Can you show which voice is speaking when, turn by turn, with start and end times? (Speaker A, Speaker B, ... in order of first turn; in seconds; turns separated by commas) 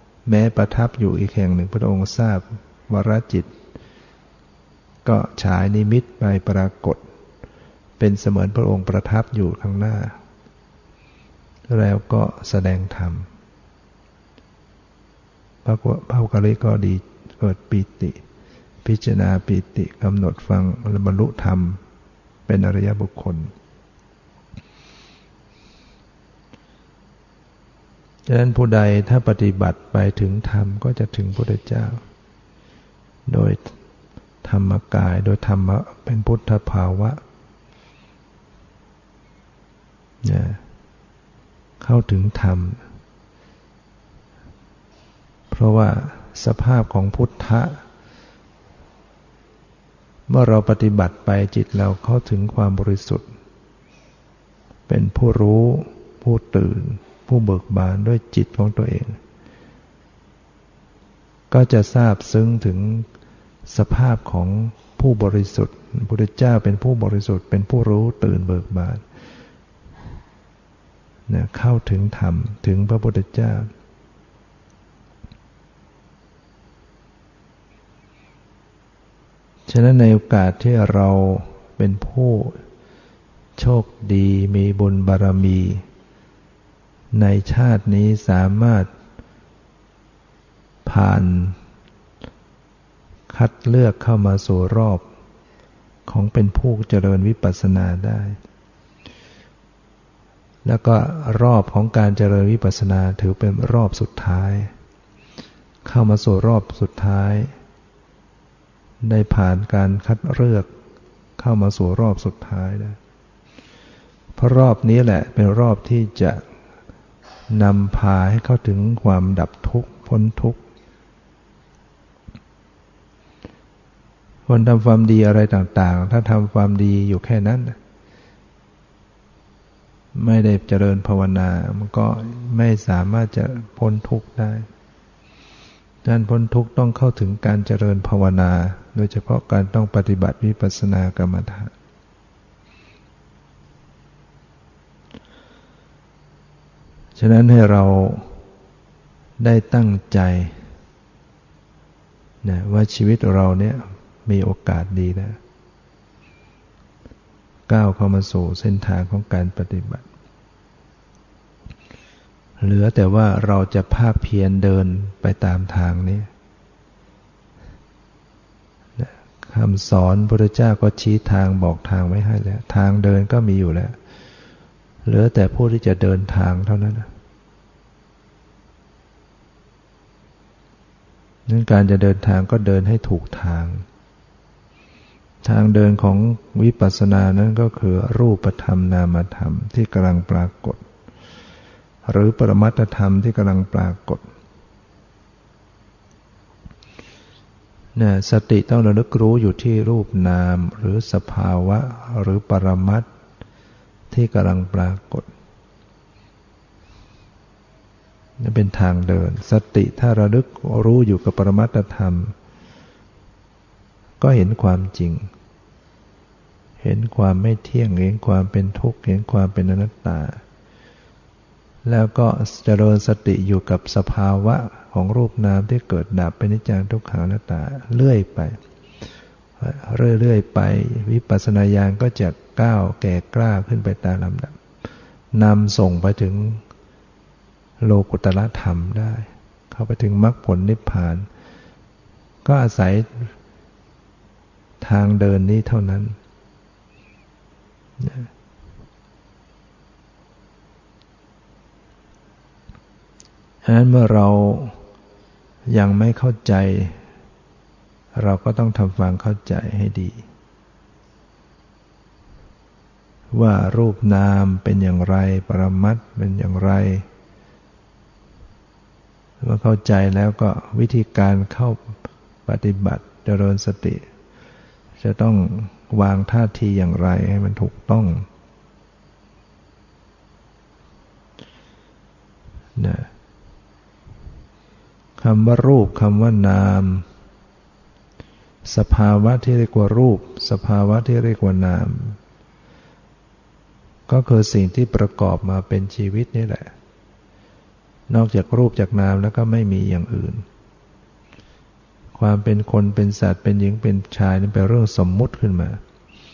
Speaker A: 0.3-3.5, Speaker A: 5.0-7.0, Speaker A: 8.0-10.2, Speaker A: 11.7-13.3, Speaker A: 15.7-18.2, Speaker A: 18.8-21.8, Speaker A: 22.5-23.5, Speaker A: 28.3-32.0, Speaker A: 33.3-33.8, Speaker A: 34.4-37.2, Speaker A: 40.2-40.6, Speaker A: 41.8-42.8, Speaker A: 45.5-47.8, Speaker A: 50.3-53.3, Speaker A: 54.9-59.2, Speaker A: 61.5-63.1, Speaker A: 63.7-69.0, Speaker A: 71.3-73.7, Speaker A: 79.7-82.6, Speaker A: 83.6-85.8, Speaker A: 87.1-88.9, Speaker A: 90.9-91.6, Speaker A: 93.3-95.1, Speaker A: 96.1-98.4, Speaker A: 100.7-104.7, Speaker A: 105.8-107.5, Speaker A: 109.0-110.7, Speaker A: 111.4-113.0, Speaker A: 114.4-116.4, Speaker A: 117.5-120.6, Speaker A: 124.5-127.8, Speaker A: 130.2-134.7, Speaker A: 136.0-141.7, Speaker A: 147.2-148.4, Speaker A: 149.4-150.6, Speaker A: 152.4-155.4, Speaker A: 157.7-160.1, Speaker A: 162.6-166.3, Speaker A: 169.0-174.0, Speaker A: 175.1-177.1, Speaker A: 181.5-183.8, Speaker A: 185.4-190.8, Speaker A: 192.1-194.2, Speaker A: 198.0-203.1, Speaker A: 204.1-205.3, Speaker A: 208.4-212.3, Speaker A: 214.2-215.3, Speaker A: 216.8-220.4, Speaker A: 221.8-228.6, Speaker A: 229.6-234.6, Speaker A: 235.3-236.6, Speaker A: 237.8-241.3, Speaker A: 242.4-243.3, Speaker A: 244.8-246.2, Speaker A: 248.0-248.3, Speaker A: 253.6-254.8, Speaker A: 255.7-257.0, Speaker A: 258.2-260.2, Speaker A: 263.3-267.1, Speaker A: 269.4-274.1, Speaker A: 275.0-278.3, Speaker A: 282.8-283.1, Speaker A: 285.2-287.1, Speaker A: 288.6-292.2, Speaker A: 294.1-296.7, Speaker A: 298.1-300.4, Speaker A: 302.1-305.8